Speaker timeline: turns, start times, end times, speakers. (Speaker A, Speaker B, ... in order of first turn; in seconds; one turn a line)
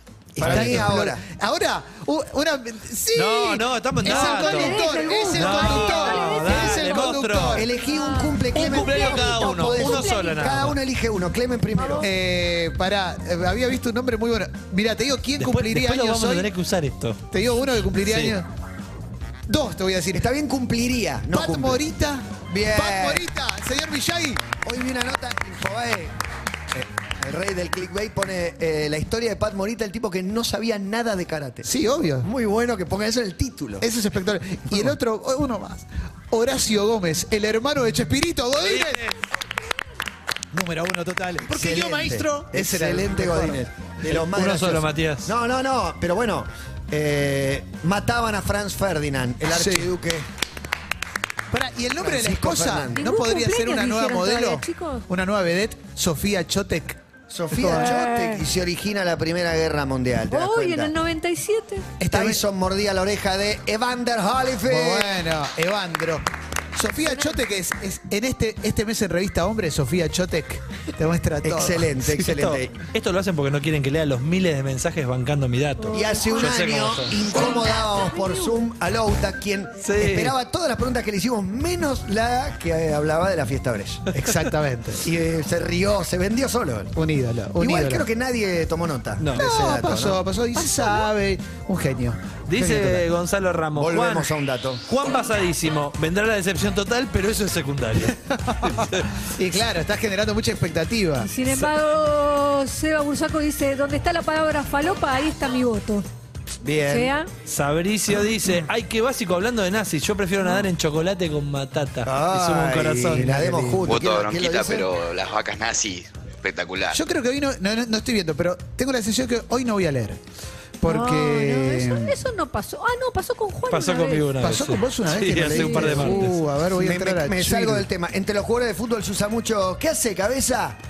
Speaker A: 0.3-7.7
Speaker B: 0.4-1.2
Speaker C: 0.4-0.9
Speaker C: 3.1-7.7
Speaker D: 4.0-7.2
Speaker B: 7.5-12.1
Speaker D: 7.7-10.4
Speaker C: 8.5-10.8
Speaker D: 11.8-12.1
Speaker A: 12.0-16.5
Speaker C: 15.4-17.2
Speaker A: 17.3-18.5
Speaker C: 18.0-18.4
Speaker A: 19.5-20.2
Speaker B: 20.1-21.8
Speaker A: 21.3-24.5
Speaker B: 22.5-23.2
Speaker B: 24.6-26.1
Speaker B: 26.7-31.7
Speaker A: 31.6-32.3
Speaker B: 32.2-33.9
Speaker A: 33.8-39.1
Speaker B: 34.7-35.0
Speaker C: 38.6-39.1
Speaker A: 40.5-43.6
Speaker B: 41.4-50.3
Speaker C: 44.0-45.3
Speaker A: 49.5-49.9
Speaker A: 51.5-57.0
Speaker B: 52.0-53.1
Speaker D: 53.0-55.1
Speaker B: 57.3-60.9
Speaker A: 57.5-57.9
Speaker D: 57.8-58.4
Speaker D: 60.3-61.9
Speaker A: 62.0-62.4
Speaker B: 62.1-65.2
Speaker A: 64.7-72.2
Speaker D: 67.0-67.3
Speaker B: 71.4-72.7
Speaker C: 72.2-77.2
Speaker D: 75.8-76.5
Speaker B: 75.9-84.3
Speaker D: 77.3-78.5
Speaker C: 79.8-80.3
Speaker A: 84.2-85.1
Speaker B: 85.0-86.9
Speaker A: 87.0-88.1
Speaker B: 87.6-90.2
Speaker C: 89.2-89.5
Speaker A: 89.4-92.7
Speaker D: 90.6-91.1
Speaker C: 92.5-94.3
Speaker B: 92.6-93.0
Speaker B: 93.8-94.8
Speaker C: 94.9-98.2
Speaker A: 98.0-101.3
Speaker C: 98.7-99.1
Speaker D: 101.2-106.1
Speaker B: 106.6-107.1
Speaker D: 106.8-107.3
Speaker C: 107.5-113.4
Speaker B: 112.0-114.9
Speaker A: 113.2-113.9
Speaker E: 113.9-117.0
Speaker A: 116.9-120.2
Speaker A: 120.8-122.2
Speaker D: 120.9-124.3
Speaker C: 123.7-126.4
Speaker A: 124.4-127.9
Speaker B: 125.4-126.2
Speaker D: 125.5-126.2
Speaker B: 126.7-130.8